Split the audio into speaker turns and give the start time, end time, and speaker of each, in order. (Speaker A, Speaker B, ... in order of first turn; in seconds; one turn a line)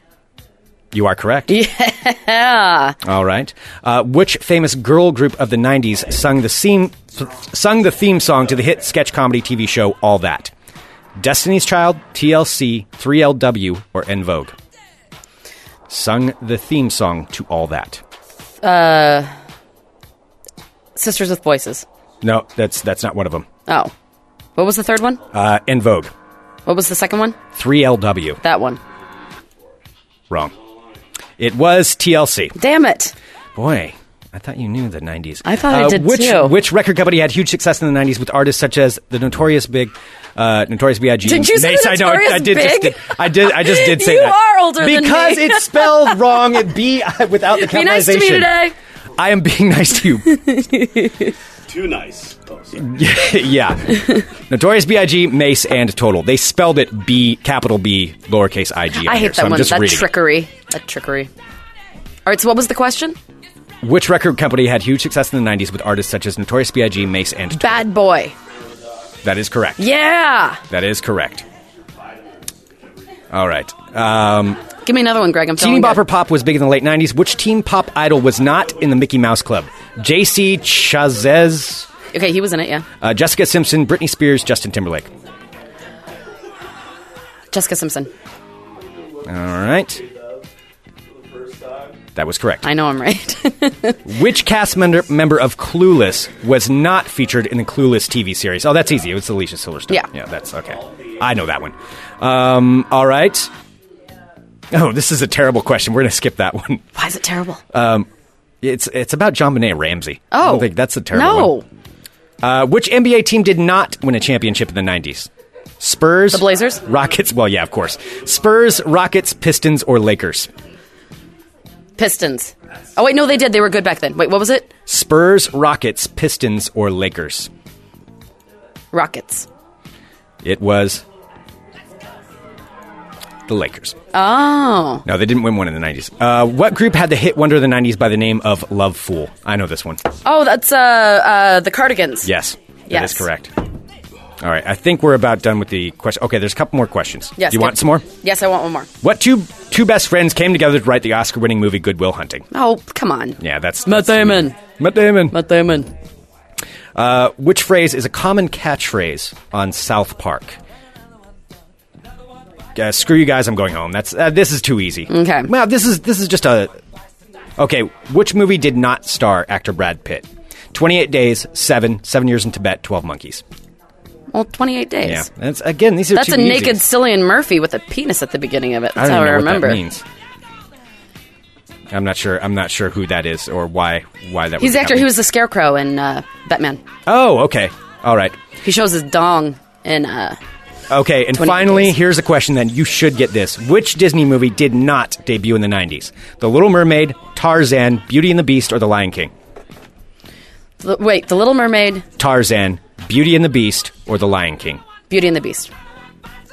Speaker A: 0.9-1.5
Speaker B: 1.5-3.0
Speaker A: 3.0-10.5
Speaker A: 11.2-14.6
Speaker A: 15.9-18.0
Speaker B: 18.6-19.3
Speaker B: 21.0-21.9
Speaker A: 22.2-23.5
Speaker B: 23.7-23.9
Speaker B: 24.6-25.2
Speaker A: 25.3-26.1
Speaker B: 26.7-27.4
Speaker A: 27.6-28.4
Speaker B: 28.4-28.8
Speaker A: 31.4-32.5
Speaker B: 32.6-33.1
Speaker A: 33.6-48.5
Speaker B: 35.4-36.6
Speaker B: 41.2-46.2
Speaker B: 47.5-48.7
Speaker A: 49.2-50.3
Speaker B: 50.3-51.3
Speaker C: 51.7-52.9
Speaker A: 52.8-60.1
Speaker B: 59.0-61.3
Speaker B: 62.3-63.2
Speaker A: 63.8-67.9
Speaker B: 67.5-68.3
Speaker A: 69.2-69.8
Speaker B: 69.8-70.6
Speaker A: 70.7-71.5
Speaker A: 73.3-74.6
Speaker B: 74.8-76.0
Speaker A: 75.6-81.9
Speaker B: 82.1-82.9
Speaker A: 83.0-85.1
Speaker B: 87.5-88.1
Speaker A: 89.2-90.0
Speaker C: 91.2-91.9
Speaker A: 92.2-92.7
Speaker B: 92.6-94.0
Speaker A: 94.0-103.5
Speaker A: 104.7-106.8
Speaker B: 107.0-107.6
Speaker A: 107.7-108.1
Speaker A: 108.6-111.5
Speaker B: 110.3-111.7
Speaker A: 112.4-115.3
Speaker A: 115.8-120.5
Speaker B: 116.3-116.8
Speaker B: 122.0-124.7
Speaker A: 124.9-127.5
Speaker B: 128.9-129.5
Speaker A: 130.4-131.0
Speaker A: 133.5-134.0
Speaker B: 134.1-135.1
Speaker A: 135.1-140.0
Speaker B: 140.2-142.3
Speaker A: 142.2-143.5
Speaker B: 142.9-143.3
Speaker A: 144.4-148.1
Speaker B: 147.4-148.9
Speaker A: 149.0-152.4
Speaker B: 152.5-154.6
Speaker A: 153.4-155.4
Speaker B: 155.3-155.9
Speaker A: 156.9-160.6
Speaker A: 162.8-166.8
Speaker B: 165.1-165.5
Speaker A: 167.6-173.4
Speaker B: 174.3-175.3
Speaker A: 175.0-176.8
Speaker B: 176.1-179.8
Speaker A: 179.0-180.0
Speaker A: 181.9-185.1
Speaker B: 184.6-186.8
Speaker A: 187.1-188.4
Speaker B: 188.6-190.4
Speaker A: 190.9-199.3
Speaker B: 191.3-191.9
Speaker B: 200.8-202.1
Speaker A: 202.2-204.8
Speaker B: 205.1-205.7